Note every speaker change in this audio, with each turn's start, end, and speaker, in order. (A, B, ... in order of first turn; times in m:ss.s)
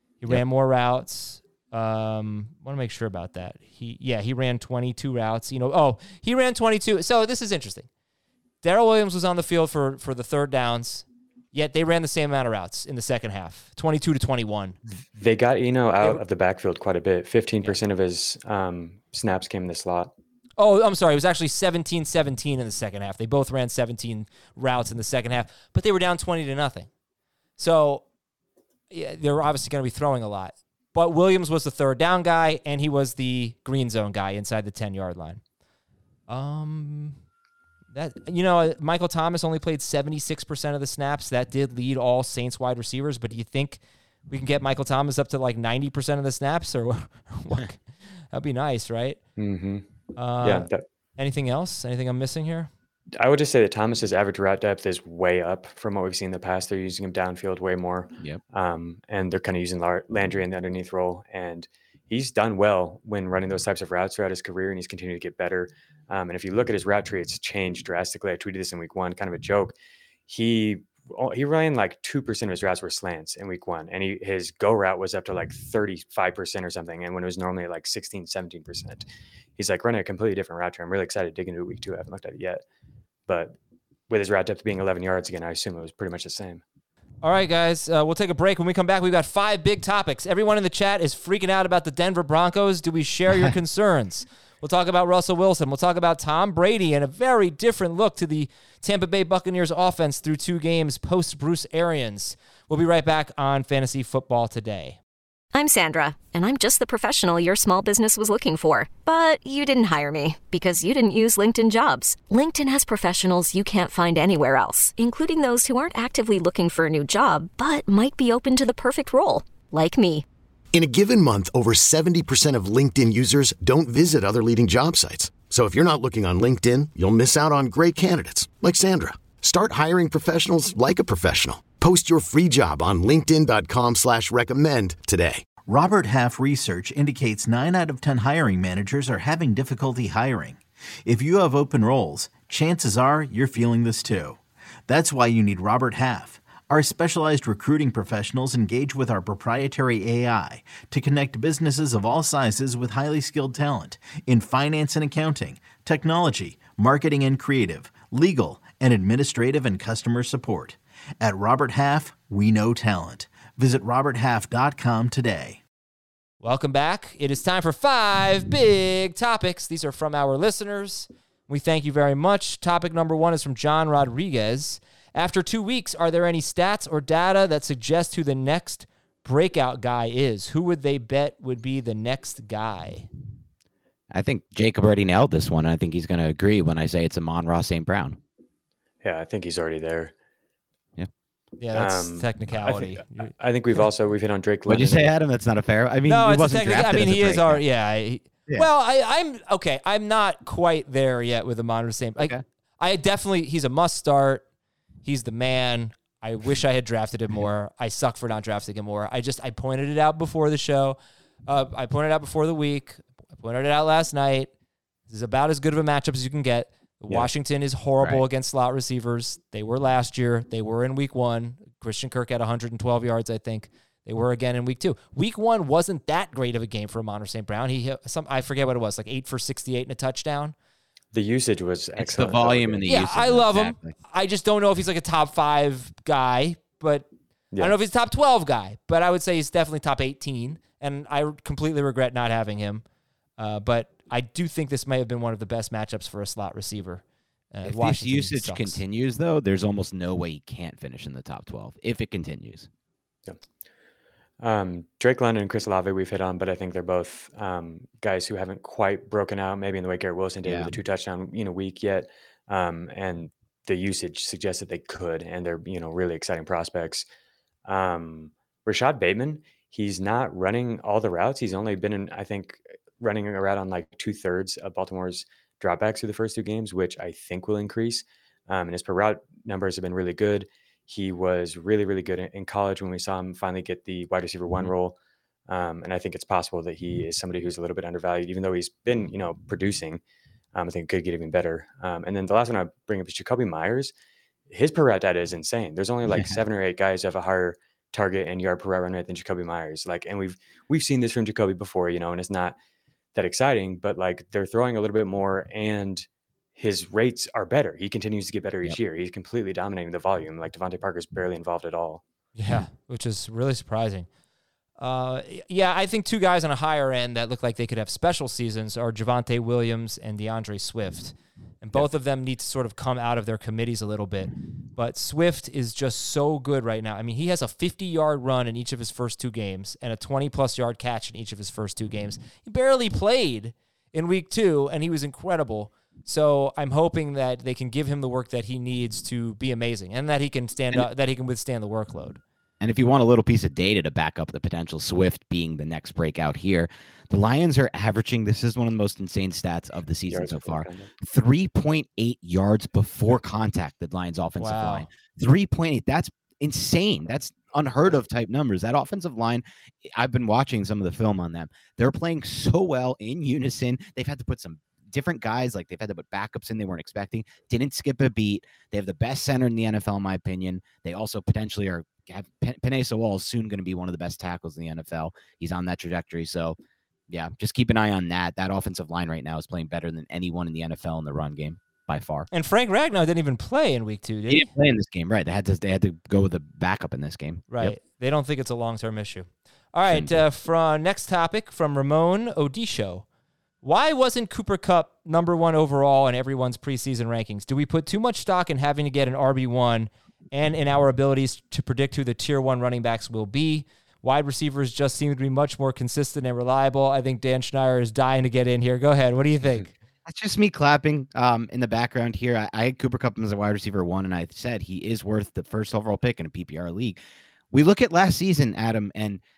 0:00.2-0:07.9 A
0:08.6-0:14.8 A
0:15.1-0:20.1 B
0:20.6-0:26.9 A
0:27.6-0:28.0 A
0:28.9-0:35.4 A
0:36.3-0:37.2 A
0:37.9-0:47.8 A
0:48.3-0:49.2 A
0:49.4-0:49.8 B
0:50.2-0:50.7 A
0:50.4-0:50.8 B
0:51.2-0:52.7 A
0:53.2-1:09.8 B
1:10.3-1:22.6 B
1:23.3-1:23.6 B
1:24.1-1:26.6 B
1:27.2-1:45.0 A
1:45.5-2:00.2 C
2:00.7-2:15.5 D
2:15.6-2:45.6 E
2:46.4-3:03.1 A
3:04.1-3:08.2 F
3:09.0-3:10.1 B
3:11.6-3:13.3 A
3:11.8-3:12.3 B
3:13.2-3:15.1 B
3:14.6-3:17.6 F
3:16.1-3:24.4 A
3:25.0-3:34.5 A
3:35.1-3:50.6 A
3:51.1-3:52.8 B
3:52.0-3:53.9 F
3:52.9-3:57.1 A
3:57.6-4:02.8 A
4:03.4-4:08.8 A
4:07.6-4:12.7 F
4:14.4-4:27.1 B
4:20.4-4:20.7 F
4:27.6-4:45.0 B
4:45.5-4:50.0 B
4:50.6-4:53.9 B
4:54.5-5:02.6 B
4:56.1-4:56.4 F
5:03.1-5:12.0 B
5:12.4-5:14.1 A
5:14.8-5:42.2 A
5:42.6-6:16.6 F
5:50.1-5:50.9 B
5:54.4-5:54.9 A
6:17.1-6:22.3 F
6:22.3-6:24.5 A
6:24.3-6:27.8 F
6:27.5-6:33.0 A
6:29.9-6:30.2 F
6:33.6-6:49.7 A
6:50.1-6:57.0 F
6:57.5-6:59.2 F